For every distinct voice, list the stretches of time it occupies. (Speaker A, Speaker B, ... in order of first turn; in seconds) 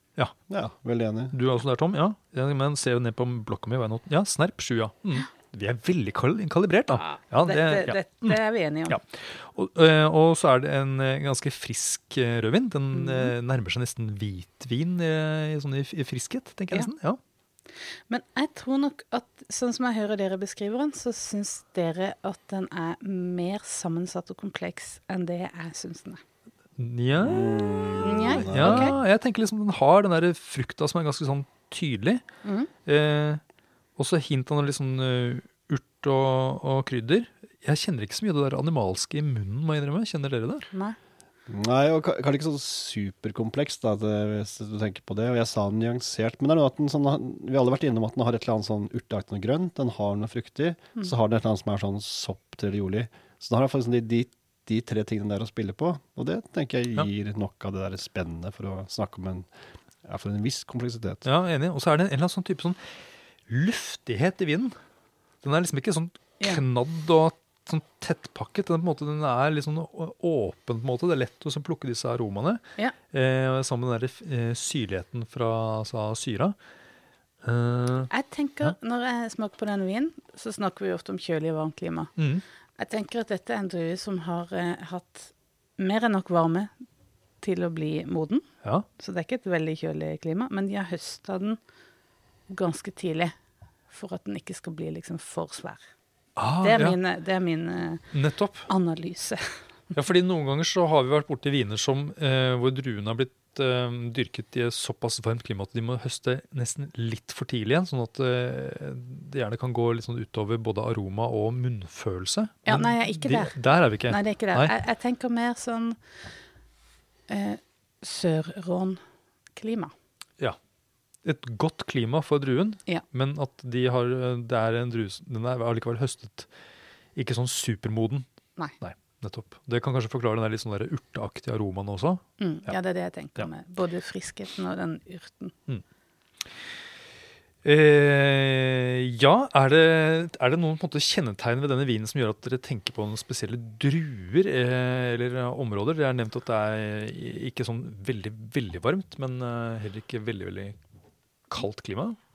Speaker A: 0.5-1.3, 27.2-29.0, 41.5-59.5, 60.0-61.2
Speaker B: 1.3-17.2, 26.8-27.6, 28.4-32.2, 32.9-33.4, 34.0-40.7, 61.2-62.8, 63.5-64.8, 65.4-76.5, 77.4-78.1, 82.2-82.4, 96.4-97.0, 98.1-98.7, 99.9-114.7, 121.2-126.5, 127.2-128.3, 128.8-132.7, 137.6-150.8, 151.5-152.2
Speaker C: 7.1-9.0, 12.9-13.3, 18.1-26.2, 28.0-28.9, 32.4-32.7, 40.7-41.0, 78.1-82.1, 82.8-86.7, 87.4-88.4, 89.0-91.6, 92.5-93.3, 93.9-95.8, 96.6-98.1, 98.7-99.4, 112.7-116.0, 117.3-119.0, 119.6-119.9, 132.4-135.5